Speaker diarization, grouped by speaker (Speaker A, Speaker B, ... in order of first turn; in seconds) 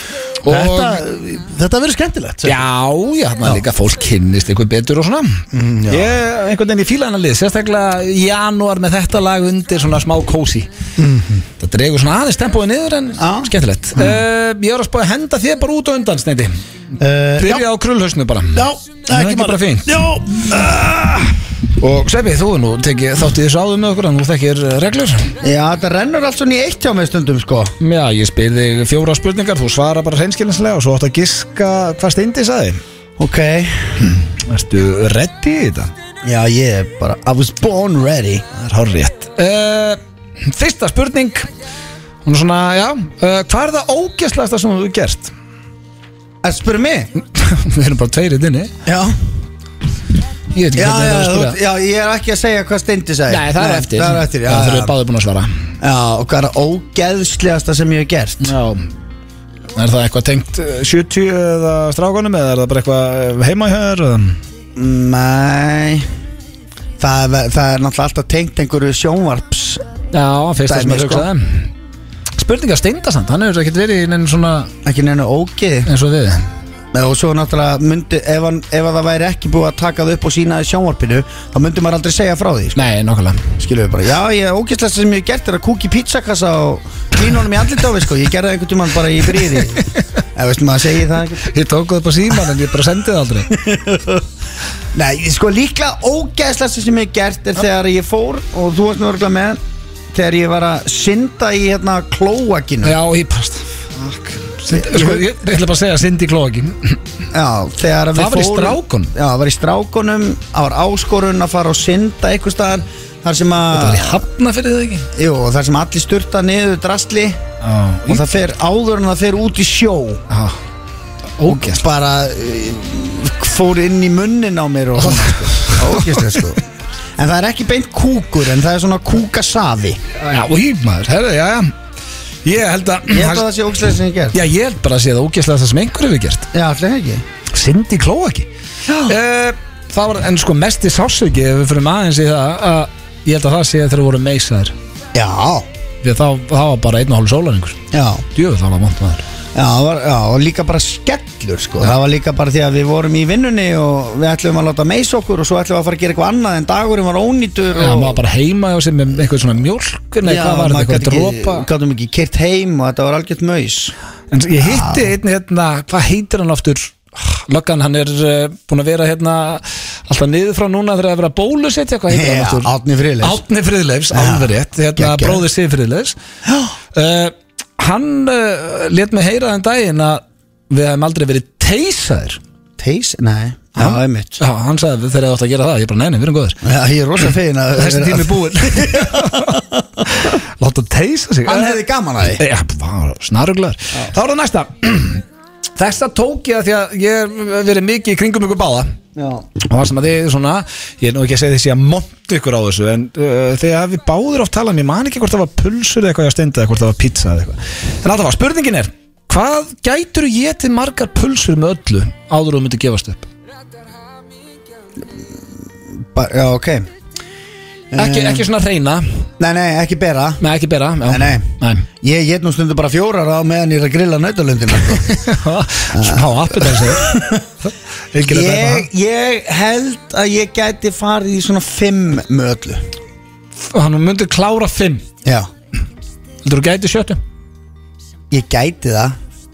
Speaker A: 0.4-1.0, 2.4-10.7, 11.6-16.6, 17.4-20.0, 21.8-25.3, 27.8-32.8, 34.0-35.9, 38.6-41.5, 42.2-45.3, 47.3-48.7, 50.5-51.6, 53.3-55.5, 58.4-58.9, 59.7-64.4, 70.1-71.7, 72.3-74.7, 75.8-76.5, 82.7-83.5, 91.4-93.5, 102.8-107.0, 108.1-109.1, 113.7-115.1, 117.6-118.2, 120.3-120.6, 121.4-121.8, 125.0-126.4, 130.2-131.7, 132.4-133.4, 134.3-136.5, 137.5-138.5, 139.1-144.7, 146.0-149.2, 157.8-161.7, 164.3-172.7, 173.2-176.2, 176.9-182.4, 183.8-186.6, 187.8-191.8, 192.4-195.2, 195.8-198.9, 199.6-213.3, 217.9-219.3, 220.4-221.8, 224.9-227.2, 228.1-228.9, 233.7-235.0, 236.4-237.2
Speaker B: 0.5-2.6, 5.5-6.2, 11.0-11.4, 17.0-17.6, 18.5-21.3
Speaker C: 13.2-13.5, 25.4-27.7, 33.2-34.1, 36.2-38.5, 46.4-47.1, 48.9-49.1, 50.7-54.9, 55.8-58.5, 64.8-66.1, 67.0-69.8, 70.7-71.3, 74.8-75.9, 76.9-82.8, 83.6-91.5, 93.6-94.2, 94.9-99.6, 100.1-103.0, 104.7-105.2, 107.3-114.2, 115.1-117.4, 118.1-120.2, 121.4-126.6, 127.2-130.0, 133.1-134.4, 136.5-137.2, 138.8-139.1, 145.1-145.7, 147.9-148.2, 149.5-158.2, 160.2-163.9, 164.6-165.1, 172.1-173.4, 174.1-175.4, 176.4-176.7, 182.8-184.4, 186.6-190.0, 191.5-192.4, 199.2-199.5, 216.1-216.9, 217.9-218.4, 219.4-220.4, 221.1-225.1, 225.9-227.4, 228.2-232.9, 238.3-239.2